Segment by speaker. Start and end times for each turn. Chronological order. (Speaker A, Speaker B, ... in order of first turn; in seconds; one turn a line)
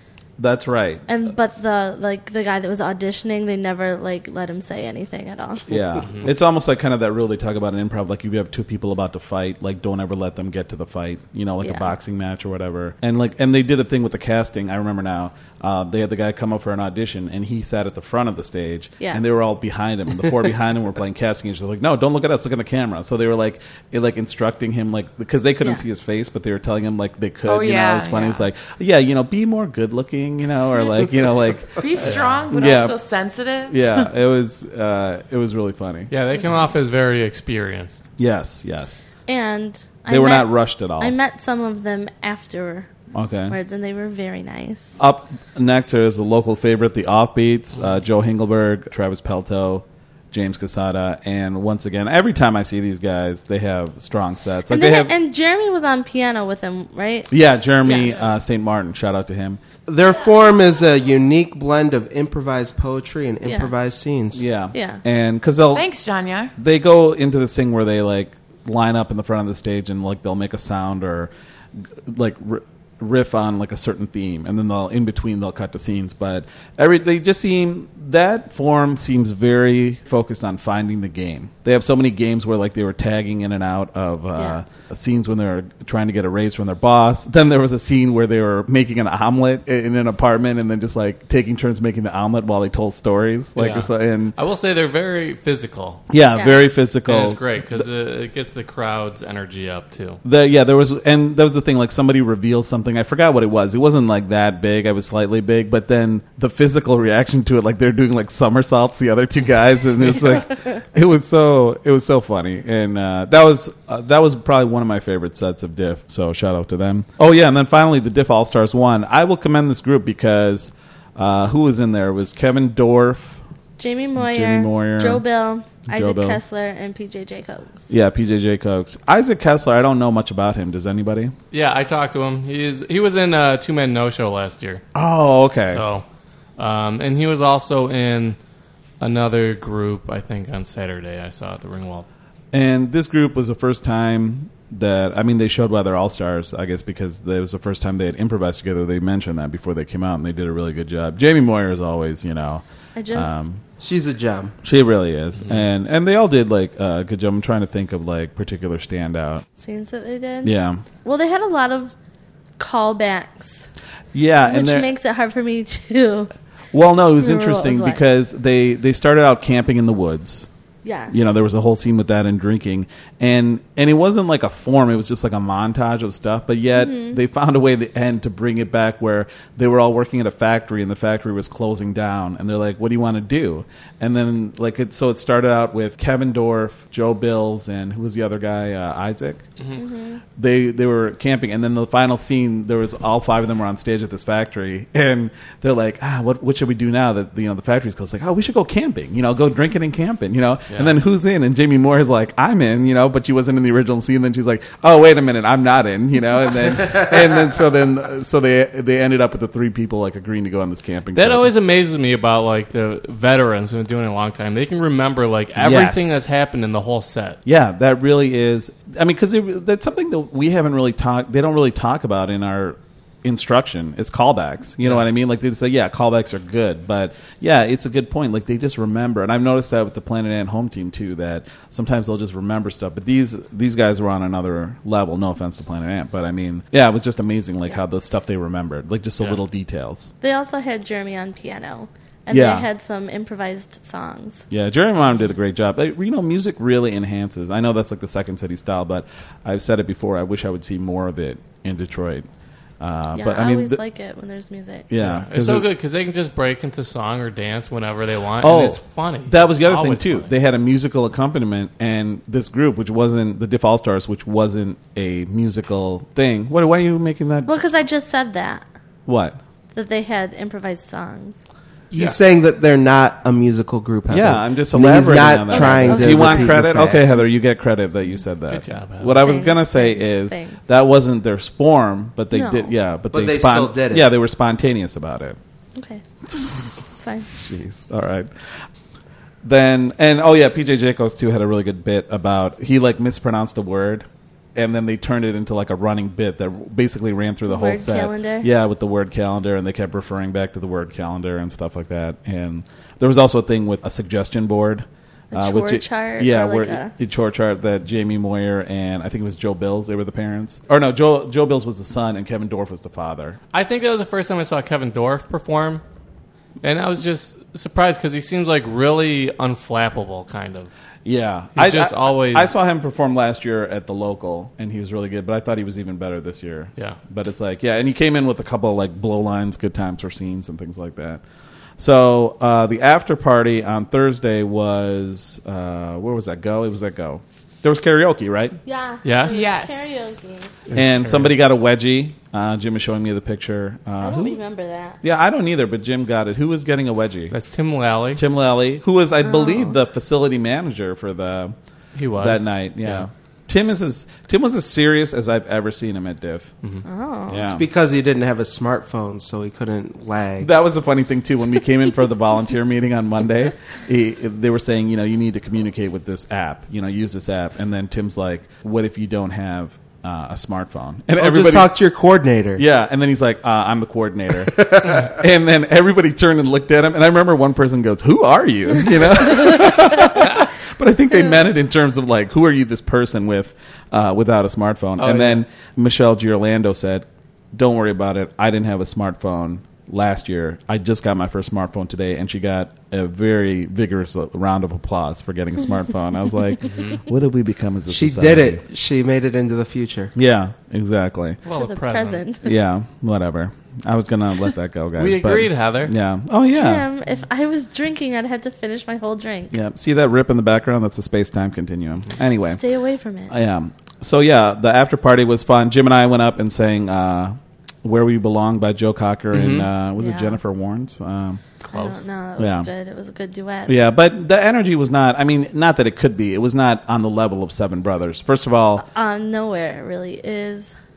Speaker A: 0.4-1.1
Speaker B: 1.1-6.0
Speaker A: 5.7-33.0
Speaker B: 11.6-11.9
Speaker C: 27.4-28.5
Speaker C: 31.8-33.8
Speaker D: 32.0-32.4
Speaker A: 33.7-36.1
Speaker D: 36.1-38.0
Speaker A: 38.2-39.0
Speaker B: 39.3-42.9
Speaker A: 40.1-41.1
Speaker A: 43.1-43.6
Speaker B: 43.5-45.0
Speaker A: 45.0-55.1
Speaker B: 54.7-58.3
Speaker A: 57.3-59.6
Speaker E: 59.9-64.4
Speaker B: 63.4-63.7
Speaker A: 64.3-65.9
Speaker B: 64.7-65.0
Speaker C: 65.7-66.5
Speaker A: 66.6-71.3
Speaker A: 72.1-94.3
Speaker B: 84.4-84.6
Speaker D: 93.6-96.0
Speaker A: 96.1-97.9
Speaker B: 96.3-96.8
Speaker D: 97.1-100.2
Speaker A: 100.2-123.4
Speaker B: 123.8-127.9
Speaker A: 124.2-125.2
Speaker A: 125.9-126.4
Speaker A: 127.9-131.3
Speaker D: 131.5-134.8
Speaker A: 134.9-135.8
Speaker D: 135.7-136.0
Speaker D: 136.6-138.4
Speaker D: 139.0-142.1
Speaker A: 142.5-153.6
Speaker B: 152.9-153.4
Speaker E: 153.8-154.6
Speaker A: 154.6-159.5
Speaker B: 159.6-160.5
Speaker A: 160.4-160.8
Speaker B: 161.0-161.9
Speaker B: 162.6-163.7
Speaker A: 164.1-164.9
Speaker B: 164.5-166.3
Speaker A: 166.7-170.5
Speaker B: 167.2-168.0
Speaker B: 170.8-171.3
Speaker A: 171.1-189.4
Speaker B: 176.8-177.2
Speaker B: 189.8-190.2
Speaker A: 190.4-211.5
Speaker D: 211.2-217.4
Speaker A: 215.6-216.2
Speaker A: 217.5-240.1
Speaker B: 240.2-244.5
Speaker A: 242.3-242.7
Speaker A: 244.5-252.3
Speaker A: 252.8-253.8
Speaker B: 253.1-254.9
Speaker A: 254.9-255.7
Speaker D: 255.0-260.3
Speaker A: 258.4-267.5
Speaker B: 267.5-268.7
Speaker A: 269.1-269.4
Speaker B: 269.7-271.4
Speaker E: 271.9-277.2
Speaker A: 274.1-285.4
Speaker B: 275.5-276.6
Speaker D: 278.5-279.4
Speaker B: 279.2-280.7
Speaker B: 282.3-282.7
Speaker E: 283.1-284.1
Speaker B: 285.8-286.1
Speaker A: 286.3-288.6
Speaker B: 286.8-287.3
Speaker A: 289.4-313.4
Speaker B: 297.4-298.5
Speaker B: 305.3-306.9
Speaker D: 313.5-315.8
Speaker D: 316.6-320.7
Speaker A: 321.1-331.2
Speaker D: 321.6-322.5
Speaker A: 331.8-338.6
Speaker B: 338.6-340.5
Speaker D: 339.0-339.5
Speaker C: 339.3-340.1
Speaker D: 340.7-341.3
Speaker A: 340.7-344.4
Speaker B: 344.0-345.0
Speaker A: 345.0-347.4
Speaker D: 347.3-348.2
Speaker A: 348.2-351.6
Speaker B: 349.2-349.8
Speaker D: 351.9-353.1
Speaker A: 352.2-356.5
Speaker B: 356.9-357.4
Speaker A: 357.3-357.7
Speaker E: 357.4-360.5
Speaker A: 360.4-371.7
Speaker E: 371.2-372.6
Speaker A: 372.6-398.6
Speaker E: 374.5-375.1
Speaker D: 385.0-385.4
Speaker D: 396.6-397.0
Speaker E: 397.9-400.1
Speaker A: 400.1-401.4
Speaker D: 401.4-402.2
Speaker B: 401.5-402.5
Speaker A: 402.4-406.9
Speaker D: 405.0-405.9
Speaker B: 406.5-409.6
Speaker A: 409.5-412.6
Speaker B: 412.4-413.3
Speaker A: 413.3-421.4
Speaker D: 419.3-419.7
Speaker B: 420.0-420.4
Speaker D: 421.6-422.1
Speaker B: 421.7-423.7
Speaker A: 422.4-422.7
Speaker A: 423.7-428.9
Speaker B: 428.8-430.8